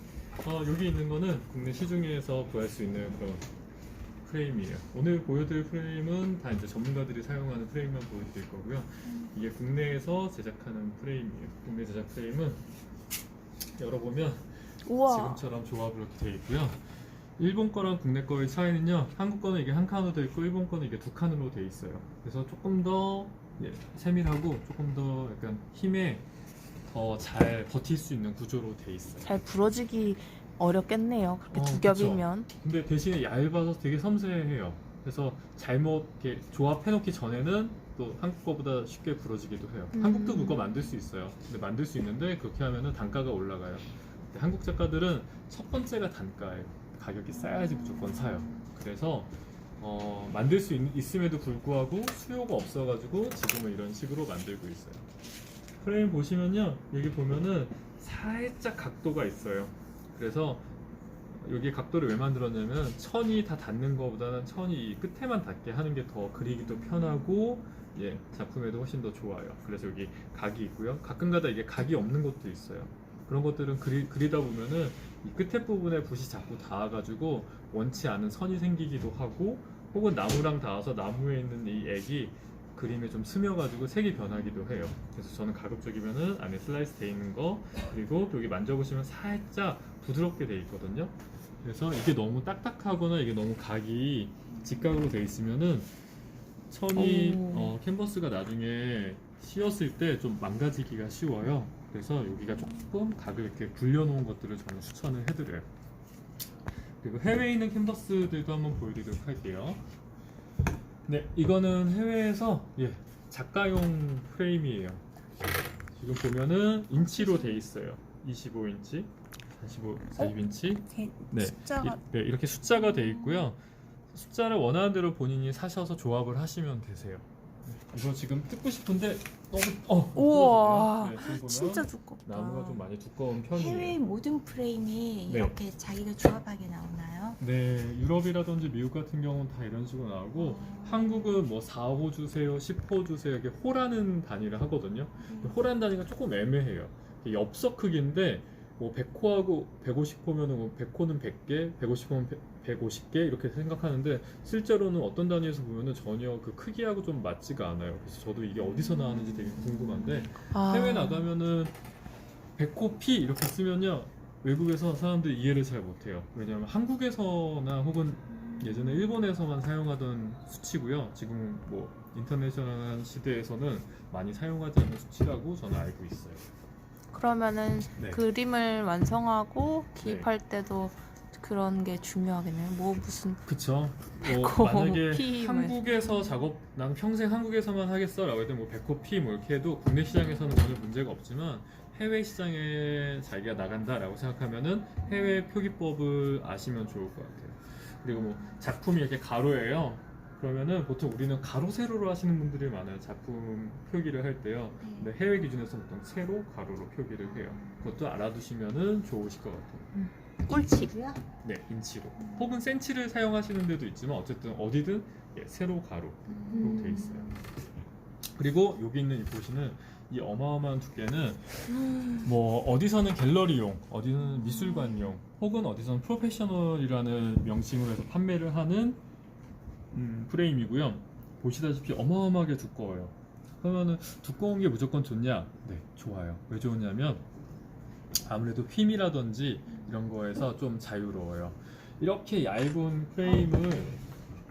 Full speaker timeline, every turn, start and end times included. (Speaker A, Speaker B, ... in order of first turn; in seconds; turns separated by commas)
Speaker A: 0.4-3.5, Speaker A: 4.2-12.6, Speaker A: 13.8-16.8, Speaker B: 14.8-15.4, Speaker A: 17.4-26.2, Speaker A: 26.9-29.3, Speaker B: 29.2-32.5, Speaker A: 31.5-55.1, Speaker B: 39.9-40.6, Speaker A: 55.8-60.7, Speaker A: 61.3-95.9, Speaker A: 96.7-105.7, Speaker B: 97.0-97.8, Speaker A: 107.0-109.8, Speaker A: 111.1-115.0, Speaker A: 116.0-123.6, Speaker B: 117.2-117.6, Speaker B: 120.9-122.0, Speaker A: 124.1-134.0, Speaker B: 130.2-132.8, Speaker C: 133.5-137.4, Speaker A: 135.3-135.6, Speaker A: 137.4-161.8, Speaker C: 140.3-141.4, Speaker C: 145.3-145.6, Speaker B: 160.5-161.3, Speaker A: 162.6-176.5, Speaker B: 177.1-183.4, Speaker A: 180.0-180.3, Speaker A: 183.5-209.9, Speaker B: 184.2-185.8, Speaker C: 204.8-205.1, Speaker B: 209.9-210.9, Speaker C: 210.7-211.2, Speaker A: 211.4-217.4, Speaker C: 212.2-212.5, Speaker C: 216.3-217.4, Speaker B: 216.6-217.1, Speaker A: 218.4-221.6, Speaker B: 221.7-222.2, Speaker A: 222.2-229.0, Speaker A: 229.9-237.2, Speaker A: 238.2-244.0